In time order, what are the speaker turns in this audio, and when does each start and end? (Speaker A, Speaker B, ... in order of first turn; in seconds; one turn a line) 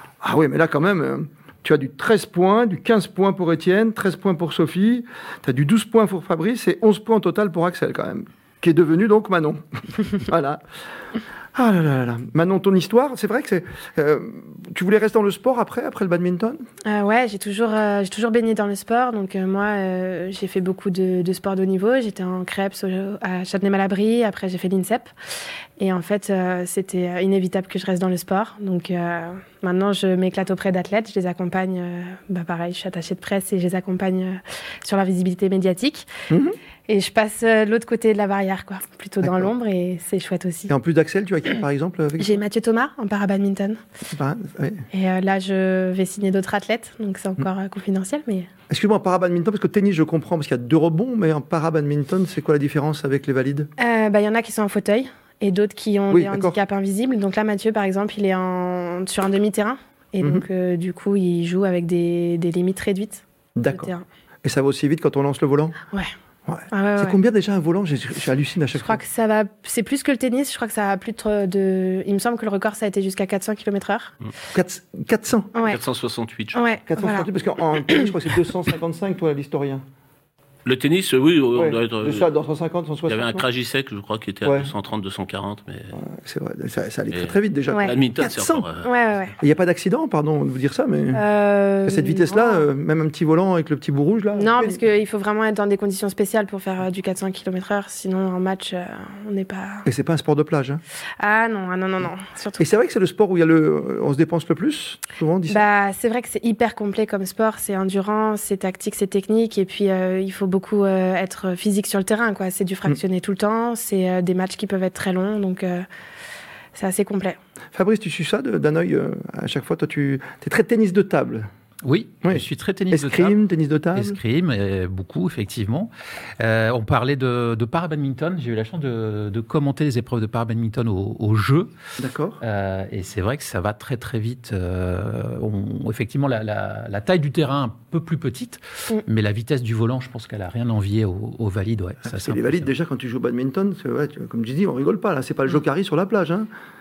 Speaker A: 0.2-10.6
Speaker A: 11.6-16.6
Speaker B: 16.9-25.1
Speaker B: 25.8-36.1
Speaker A: 36.3-36.6
Speaker B: 36.9-40.7
Speaker A: 39.2-39.5
Speaker A: 40.7-42.4
Speaker B: 42.2-43.8
Speaker A: 44.1-44.9
Speaker B: 44.9-48.5
Speaker A: 48.7-53.7
Speaker B: 53.8-64.0
Speaker A: 56.1-56.6
Speaker A: 63.6-63.9
Speaker A: 64.4-65.8
Speaker A: 66.5-69.0
Speaker B: 66.7-67.2
Speaker B: 68.8-74.2
Speaker A: 74.5-75.5
Speaker B: 75.5-75.8
Speaker C: 75.7-76.6
Speaker B: 76.5-77.3
Speaker A: 76.9-79.8
Speaker C: 80.7-82.3
Speaker A: 81.5-83.4
Speaker C: 83.1-86.0
Speaker A: 84.5-84.7
Speaker A: 85.9-88.7
Speaker C: 87.1-88.9
Speaker B: 87.7-88.0
Speaker B: 88.8-89.4
Speaker A: 89.4-91.2
Speaker B: 91.1-92.7
Speaker A: 91.9-94.8
Speaker B: 94.3-99.9
Speaker A: 99.9-100.8
Speaker B: 101.2-102.7
Speaker A: 102.6-105.6
Speaker B: 105.5-115.9
Speaker B: 116.7-117.4
Speaker A: 117.7-121.5
Speaker D: 121.8-131.7
Speaker A: 122.2-124.2
Speaker A: 132.0-132.4
Speaker D: 132.4-142.7
Speaker A: 142.0-146.5